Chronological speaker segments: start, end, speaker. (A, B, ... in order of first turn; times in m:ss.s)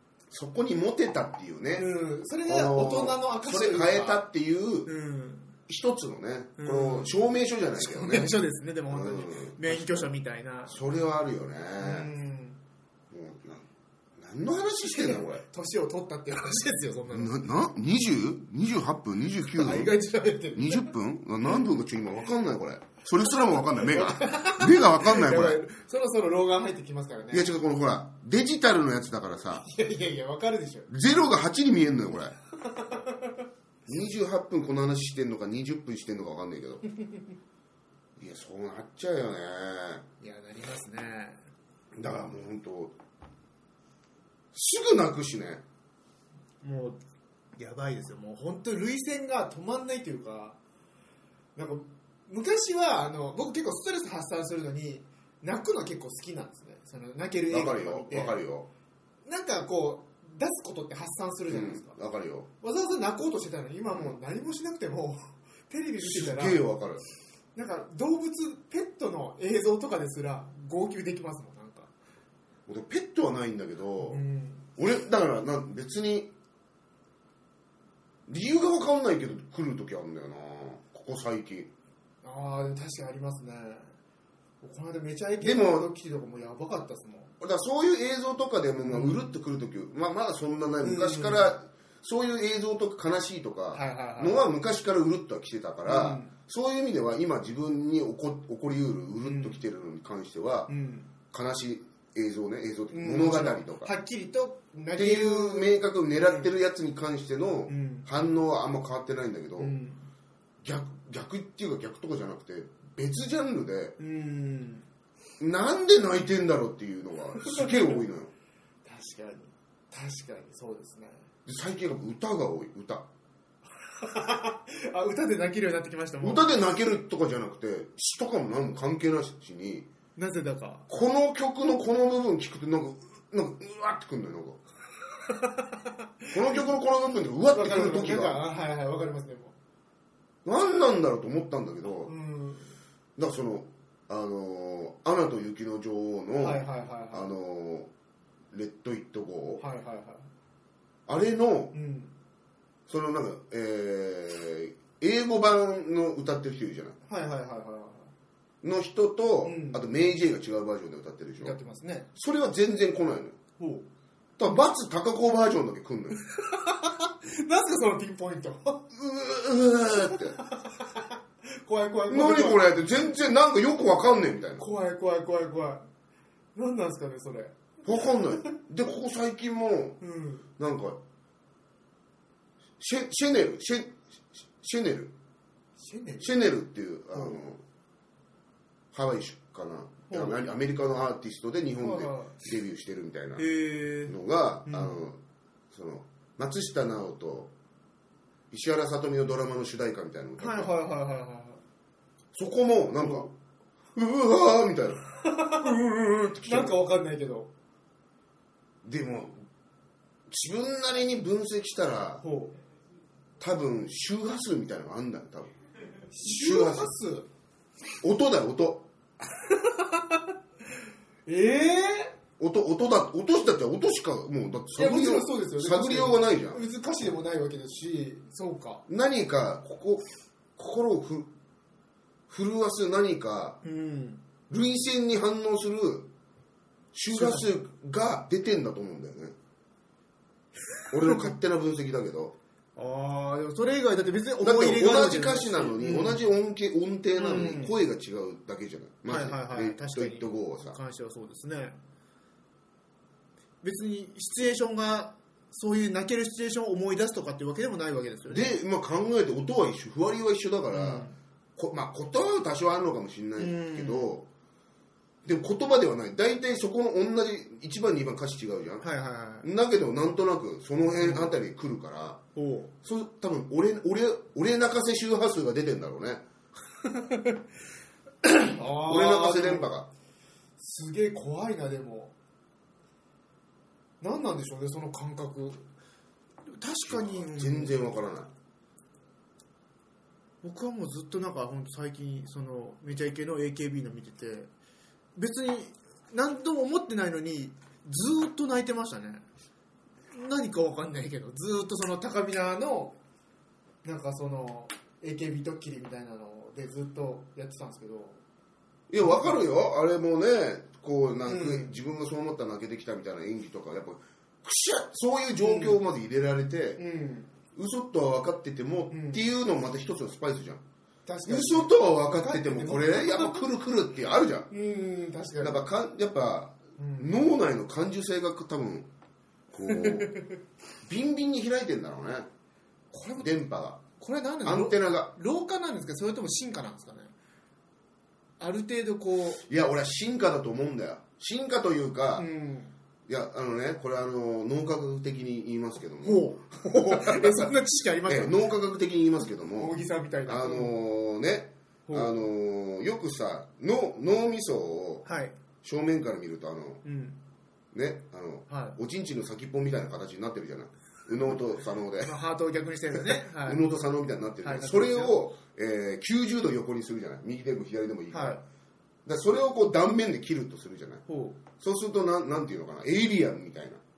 0:00.3-0:01.9 A
0:01.8-0:04.2 B
0:02.4-0:04.9 A
0:04.8-0:05.5 B
0:05.7-0:08.3 A
0:06.6-0:07.2 B
0:07.8-0:10.8 B
0:08.9-0:10.1 A
0:10.7-0:12.1 A
0:11.8-0:12.6 B
0:13.1-0:13.6 A
0:14.2-0:15.4 A
0:14.9-0:17.4 B
0:17.1-0:19.9 A
0:19.5-0:20.9 B
0:20.5-0:25.6 A
0:23.6-0:27.5 B
0:27.3-0:29.6 A
0:29.6-0:30.9 B
0:30.9-0:32.4 A
0:32.6-0:33.4 B
0:33.9-0:36.8 A
0:38.2-0:40.0 A
0:40.2-0:41.4 B
0:42.0-0:42.9 A
0:44.5-0:45.6 A
0:46.6-0:47.0 B
0:47.6-0:50.6 B
0:51.6-0:58.4 B
0:57.5-0:58.7 A
0:59.2-1:01.9 B
1:01.5-1:02.5 A
1:02.6-1:06.6 B
1:06.0-1:07.0 A
1:07.5-1:11.9 B
1:12.7-1:14.2 A
1:14.0-1:14.6 B
1:14.8-1:16.3 A
1:18.3-1:21.7 A
1:22.2-1:23.9 B
1:24.6-1:27.3 B
1:25.4-1:25.9 A
1:27.4-1:40.7 A
1:28.9-1:29.2 B
1:30.8-1:31.5 B
1:33.7-1:34.4 B
1:35.8-1:36.3 B
1:39.2-1:39.6 B
1:40.7-1:41.1 B
1:41.3-1:43.9 A
1:42.9-1:46.5 B
1:45.0-1:49.8 A
1:47.7-1:48.1 B
1:49.6-1:50.0 B
1:50.6-1:54.0 A
1:54.0-1:54.8 B
1:55.4-1:58.3 A
1:57.4-1:57.8 B
1:58.8-2:01.2 B
2:01.4-2:03.1 A
2:04.0-2:06.5 B
2:06.2-2:09.9 A
2:10.2-2:10.9 B
2:10.9-2:14.6 A
2:15.3-2:16.7 B
2:16.3-2:18.4 A
2:17.5-2:19.5 B
2:20.4-2:22.1 A
2:22.0-2:22.7 B
2:23.2-2:27.9 A
2:26.4-2:27.3 B
2:28.5-2:29.6 A
2:29.6-2:30.3 B
2:31.1-2:31.7 A
2:31.7-2:32.1 B
2:32.9-2:37.0 A
2:37.0-2:38.1 B
2:38.6-2:41.6 A
2:39.4-2:39.8 B
2:41.4-2:42.1 B
2:42.2-2:43.4 A
2:43.6-2:43.8 B
2:44.4-2:46.2 A
2:46.2-2:48.9 B
2:48.9-2:50.4 A
2:49.9-2:53.1 B
2:52.1-2:54.6 A
2:54.6-2:55.8 B
2:56.6-2:58.5 B
2:57.8-3:00.0 A
3:00.0-3:00.4 B
3:00.6-3:01.0 A
3:02.8-3:04.0 A
3:04.6-3:05.1 A
3:05.8-3:06.4 B
3:06.2-3:07.6 A
3:07.1-3:07.4 B
3:08.9-3:13.5 A
3:10.1-3:10.4 B
3:11.8-3:12.4 B
3:13.4-3:15.0 B
3:14.0-3:15.2 A
3:15.7-3:17.5 A
3:18.5-3:20.7 A
3:20.4-3:21.6 B
3:22.3-3:23.3 A
3:23.0-3:23.3 B
3:23.9-3:26.8 A
3:25.2-3:25.7 B
3:26.4-3:27.5 B
3:28.8-3:29.4 A
3:30.3-3:32.2 A
3:32.2-3:32.5 B
3:33.4-3:35.5 A
3:36.1-3:37.3 B
3:36.2-3:36.9 A
3:38.0-3:38.9 A
3:39.3-3:40.3 B
3:41.3-3:42.1 B
3:42.4-3:46.6 A
3:44.7-3:48.8 B
3:48.9-3:50.0 A
3:50.6-3:51.3 A
3:52.3-3:53.6 A
3:53.6-3:54.2 B
3:54.5-3:56.1 A
3:56.9-3:59.4 A
3:57.1-3:57.5 B
4:00.9-4:02.4 A
4:01.0-4:01.3 B
4:02.8-4:06.2 B
4:04.4-4:10.8 A
4:07.1-4:07.8 B
4:09.1-4:11.8 B
4:13.6-4:18.5 B
4:18.3-4:24.3 A
4:20.7-4:21.1 B
4:23.4-4:24.2 B
4:25.2-4:28.8 A
4:28.8-4:29.5 B
4:29.4-4:32.2 A
4:31.0-4:31.3 B
4:32.4-4:32.7 B
4:32.8-4:36.2 A
4:36.8-4:37.4 B
4:38.2-4:39.7 B
4:38.7-4:39.9 A
4:40.6-4:42.1 B
4:44.0-4:45.6 B
4:46.5-4:48.0 B
4:46.8-4:48.3 A
4:50.4-4:54.5 B
4:55.2-4:59.2 B
5:00.1-5:03.0 B
5:03.8-5:08.2 B
5:08.9-5:16.8 A
5:09.0-5:09.3 B
5:11.3-5:11.7 B
5:15.4-5:15.8 B
5:16.8-5:17.3 B
5:17.5-5:20.6 A
5:18.9-5:19.2 B
5:21.0-5:23.4 B
5:21.3-5:24.5 A
5:24.5-5:25.7 B
5:25.4-5:28.9 A
5:26.8-5:27.2 B
5:29.5-5:30.2 A
5:29.6-5:30.4 B
5:30.8-5:32.3 A
5:32.9-5:33.3 B
5:33.2-5:33.8 A
5:33.9-5:37.1 B
5:34.4-5:35.1 A
5:38.4-5:39.4 B
5:39.4-5:42.3 A
5:42.2-5:42.7 B
5:43.1-5:47.5 A
5:46.0-5:48.4 B
5:48.0-5:55.0 A
5:49.6-5:50.7 B
5:51.9-5:52.2 B
5:55.0-5:55.4 B
5:55.6-5:56.8 A
5:56.8-5:57.2 B
5:57.7-6:02.1 A
5:58.5-5:58.8 B
6:02.0-6:03.7 B
6:02.9-6:08.4 A
6:04.4-6:05.2 B
6:08.1-6:08.4 B
6:09.0-6:11.0 A
6:11.1-6:11.4 B
6:11.6-6:13.8 A